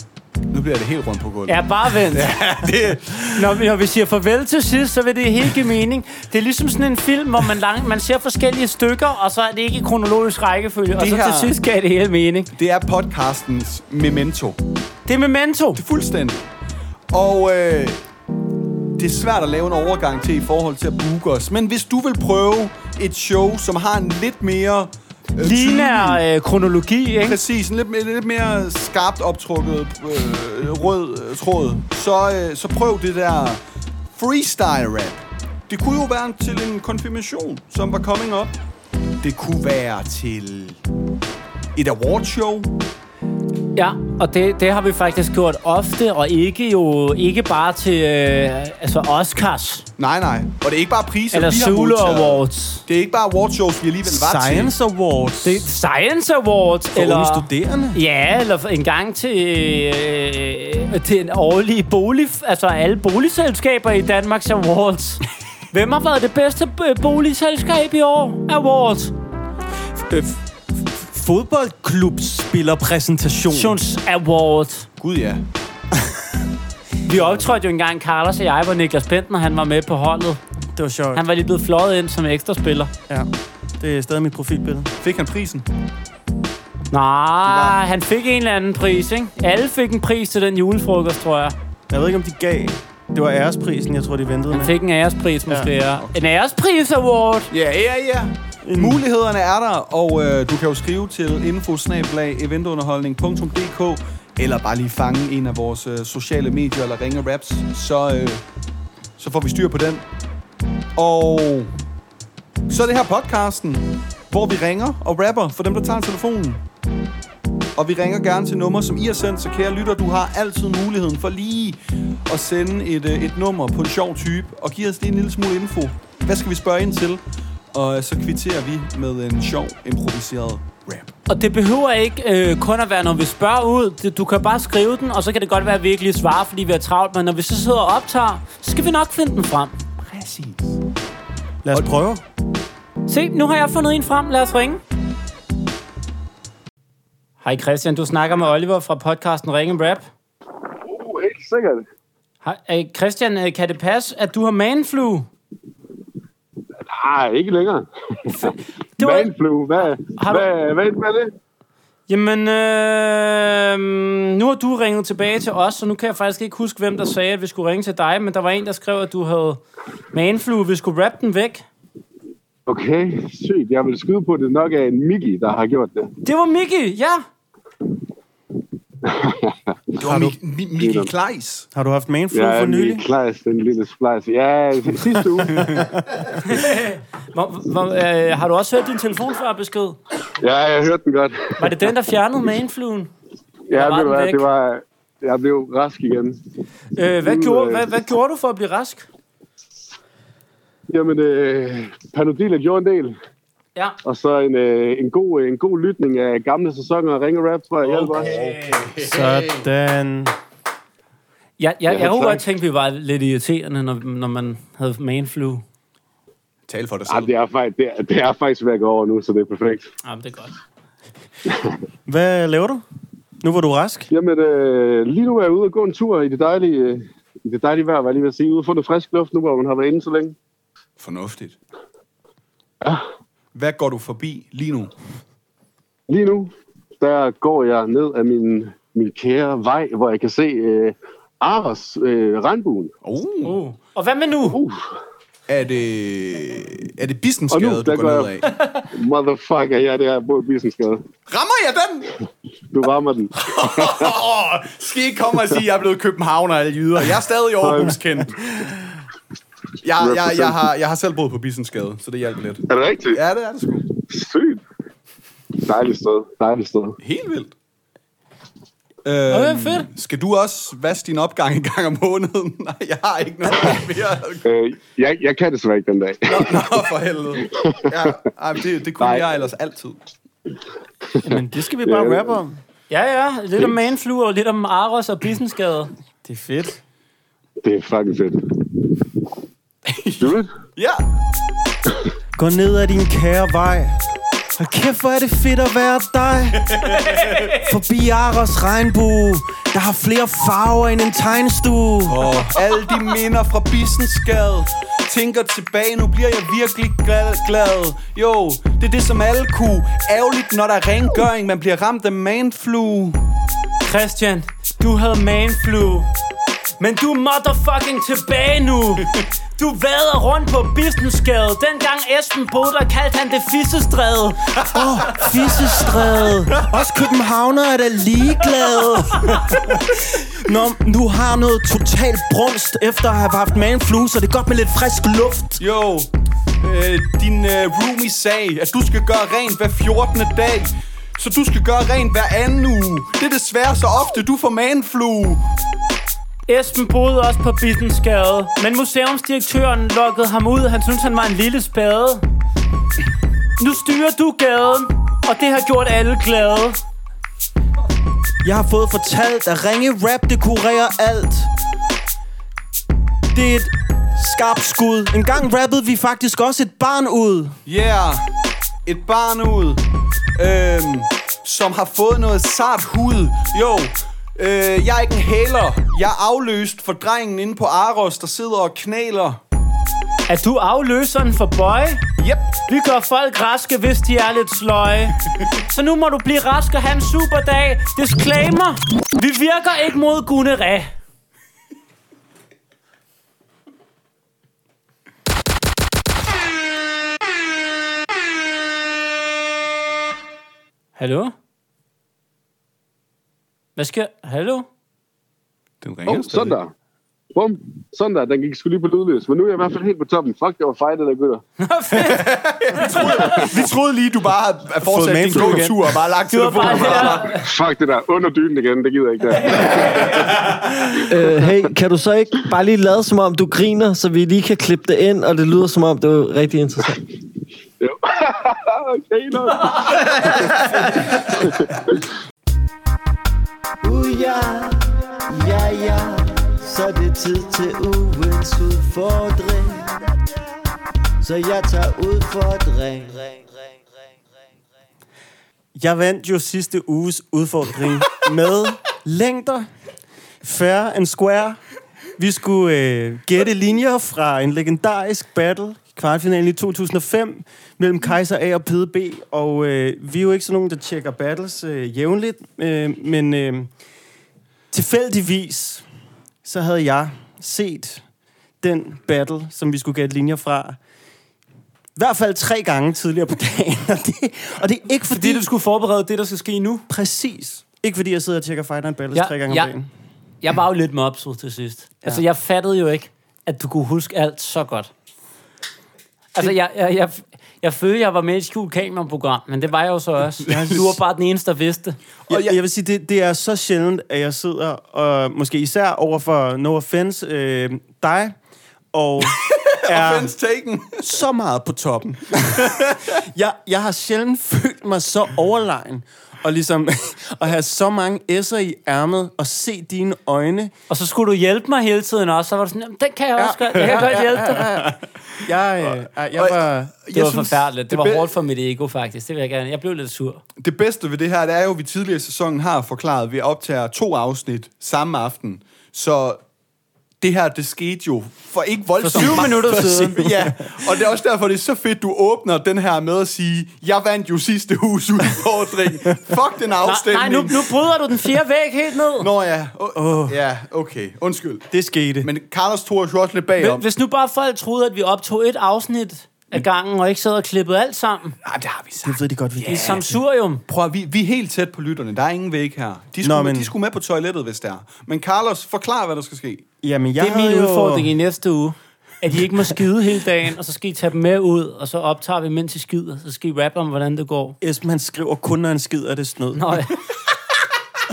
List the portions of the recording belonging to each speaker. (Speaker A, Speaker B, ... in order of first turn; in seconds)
Speaker A: 0.5-3.6, 11.0-11.5, 12.5-14.6, 15.8-16.4, 17.1-18.0, 18.9-26.2, 27.2-33.6, 34.1-38.6, 39.2-40.8, 41.8-42.7, 50.0-54.7, 75.0-75.4, 85.0-85.7, 87.5-87.8, 97.5-108.4, 109.2-110.0, 111.0-111.7, 112.7-116.6, 117.8-127.2, 127.7-131.1, 140.0-140.8, 180.0-181.7, 207.8-209.7, 216.7-217.3, 231.0-231.6, 233.6-234.9, 243.0-243.6, 245.5-248.5, 251.3-252.1, 253.4-258.6, 259.8-263.9, 267.0-267.5, 269.1-274.5, 276.3-280.0, 289.9-291.1, 296.7-297.3, 302.1-313.2, 324.6-325.3, 329.4-329.7, 335.6-336.1, 336.6-345.4, 367.7-368.2, 368.9-369.8, 370.4-379.4, 382.2-382.5, 405.8-406.6, 411.9-417.4, 490.4-490.8, 492.3-492.6, 499.2-501.1, 502.6-503.0, 515.9-518.3, 520.6-526.4, 527.2-537.7, 539.2-541.7, 542.2-543.8, 548.4-550.0, 550.6-556.6
Speaker B: 1.5-2.4, 3.3-12.5, 15.1-15.8, 25.4-27.4, 43.8-49.8, 51.3-52.8, 55.4-65.2, 65.7-69.1, 73.5-74.9, 77.1-80.4, 81.1-82.9, 86.9-91.5, 94.5-97.5, 131.3-139.7, 143.1-144.8, 147.4-150.1, 152.4-155.3, 158.3-160.5, 162.1-169.6, 170.1-171.7, 176.2-177.2, 186.4-190.0, 191.6-193.1, 193.7-194.5, 196.9-199.1, 208.2-208.8, 211.6-215.6, 220.0-220.6, 243.4-244.6, 269.3-269.9, 282.9-285.9, 297.0-297.6, 313.8-316.1, 316.8-324.4, 346.5-352.2, 353.6-356.8, 380.3-382.0, 382.7-385.2, 385.7-390.9, 401.0-401.3, 403.8-404.7, 411.6-413.5, 416.3-417.4, 475.1-476.9, 479.1-479.7, 480.4-484.9, 486.3-492.0, 510.9-514.6, 517.1-520.4, 529.0-530.2, 536.8-539.3, 543.6-548.4, 549.6-550.6, 557.2-564.6, 566.5-566.9
Speaker C: 54.1-55.6, 56.9-58.0, 69.9-73.8, 80.7-81.2, 83.8-84.9, 91.9-94.7, 98.7-99.0, 141.7-142.2, 181.7-183.0, 209.0-210.3, 222.1-222.8, 223.4-224.1, 281.2-282.6, 286.2-286.8, 292.4-294.0, 294.6-296.8, 297.5-302.3, 324.7-335.6, 358.4-361.5, 363.3-367.6, 414.8-415.8, 433.8-440.1, 441.2-443.5, 445.7-449.7, 450.4-451.6, 452.2-463.7, 464.7-465.8, 466.4-468.0, 468.6-470.8, 471.9-475.5, 476.9-479.9, 490.5-490.9, 492.3-498.4, 498.9-500.3, 501.0-510.7, 513.4-516.9, 529.1-530.7, 539.9-540.4, 541.7-542.3, 549.0-550.1, 553.2-553.7, 556.8-558.1, 564.6-566.9
Speaker D: 150.8-151.8, 156.8-161.3, 172.7-176.1, 179.0-181.1, 182.3-185.8, 190.4-191.7, 193.7-196.4, 197.2-197.9, 200.9-203.2, 204.1-208.3, 211.9-212.4, 217.1-219.9, 221.5-221.7, 224.1-230.3, 236.1-242.9, 244.5-244.8, 247.5-248.4, 248.9-251.0, 252.7-254.1, 257.6-258.0, 260.0-260.6, 262.7-263.2, 264.0-264.6, 265.6-267.0, 274.4-276.8, 277.4-278.2, 279.0-279.4, 281.8-282.3, 287.6-288.9, 290.2-290.5, 406.1-406.7, 407.3-411.4, 413.1-413.5, 416.9-420.5, 427.8-432.0
Speaker E: 421.1-427.0